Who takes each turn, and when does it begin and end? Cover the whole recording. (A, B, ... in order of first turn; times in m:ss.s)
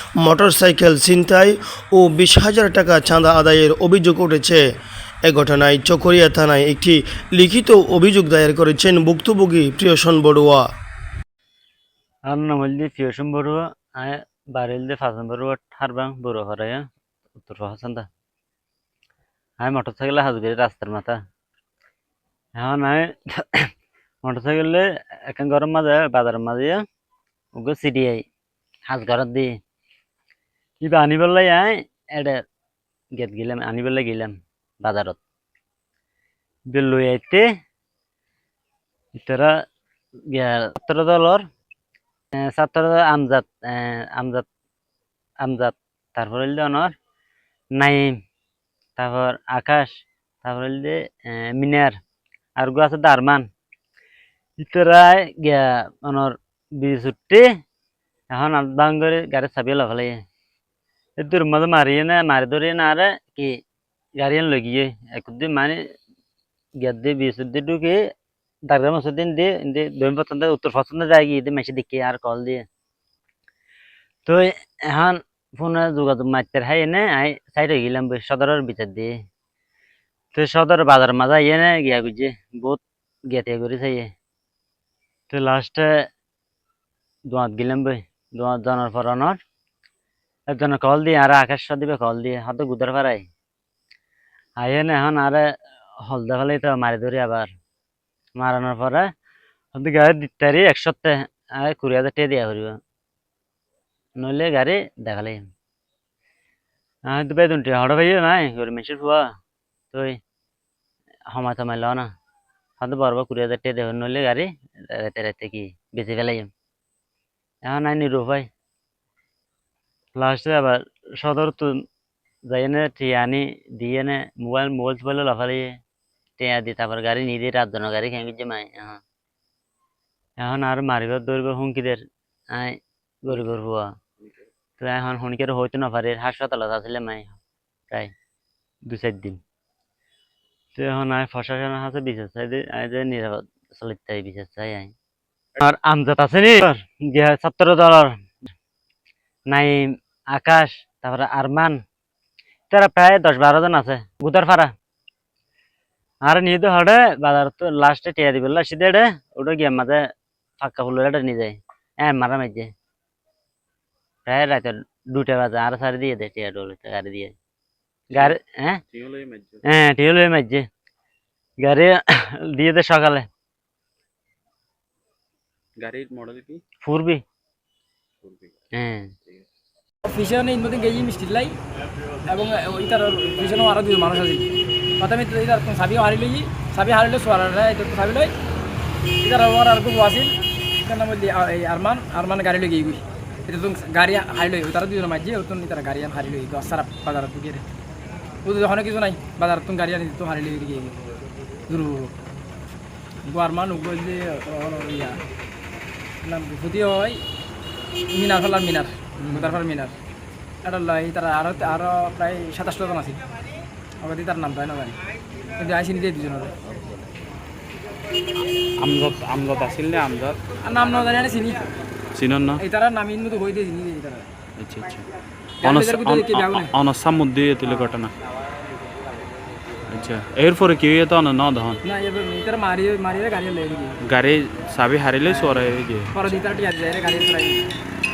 0:00.2-0:04.6 A
0:05.2-0:10.6 A
0:12.3-0:18.1 B
0:19.6-0:21.2 B
0:22.6-0:23.7 B
0:24.2-0:26.8 B
0:27.5-0:28.2 B
0:28.9-0:29.5 B
0:30.8-0:32.4 B
0:33.2-0:35.2 B
0:36.7-0:37.5 B
0:39.1-0:39.6 B
0:40.3-0:41.4 B
0:42.3-0:44.4 B
0:45.4-0:46.9 B
0:47.8-0:48.2 B
0:49.0-0:49.9 B
0:50.4-0:52.0 B
0:52.6-0:53.5 B
0:54.6-0:57.4 B
0:58.3-1:00.2 B
1:01.2-1:03.6 B
1:04.2-1:05.8 B
1:06.8-1:08.0 B
1:08.7-1:12.6 B
1:14.2-1:19.1 B
1:20.3-1:22.8 B
1:23.3-1:24.1 B
1:25.3-1:26.0 B
1:27.3-1:29.4 B
1:30.5-1:33.3 B
1:34.6-1:35.5 B
1:36.0-1:37.5 B
1:38.4-1:39.1 B
1:39.7-1:42.8 B
1:44.2-1:45.5 B
1:47.1-1:49.2 B
1:49.9-1:50.2 B
1:51.3-1:52.1 B
1:52.8-1:56.5 B
1:57.6-1:58.5 B
2:00.2-2:01.8 B
2:02.5-2:05.8 B
2:06.4-2:09.0 B
2:10.4-2:12.0 B
2:12.5-2:13.9 B
2:14.8-2:17.4 B
2:18.9-2:19.4 B
2:20.8-2:24.9 B
2:25.6-2:28.1 B
2:29.5-2:31.8 B
2:32.7-2:34.7 B
2:36.2-2:40.0 B
2:40.6-2:42.7 B
2:44.2-2:47.3 B
2:48.1-2:48.8 B
2:48.9-2:49.6 C
2:49.6-2:50.6 B
2:51.6-2:53.2 B
2:55.8-2:56.6 C
2:56.8-2:57.2 B
2:58.2-2:58.5 C
2:58.7-2:59.1 B
3:00.0-3:01.5 D
3:02.3-3:08.3 D
3:09.2-3:17.6 D
3:18.4-3:21.0 D
3:21.7-3:22.1 D
3:23.2-3:25.2 D
3:26.2-3:27.2 D
3:28.1-3:29.9 D
3:29.3-3:29.6 C
3:30.6-3:33.2 D
3:34.0-3:35.0 D
3:35.6-3:36.5 D
3:38.8-3:40.4 C
3:40.6-3:41.7 D
3:42.1-3:42.6 C
3:42.6-3:44.3 D
3:44.6-3:45.0 C
3:45.6-3:46.7 D
3:45.6-3:48.1 C
3:49.9-3:51.8 C
3:51.8-3:54.0 D
3:54.0-3:56.1 C
3:55.2-3:57.7 D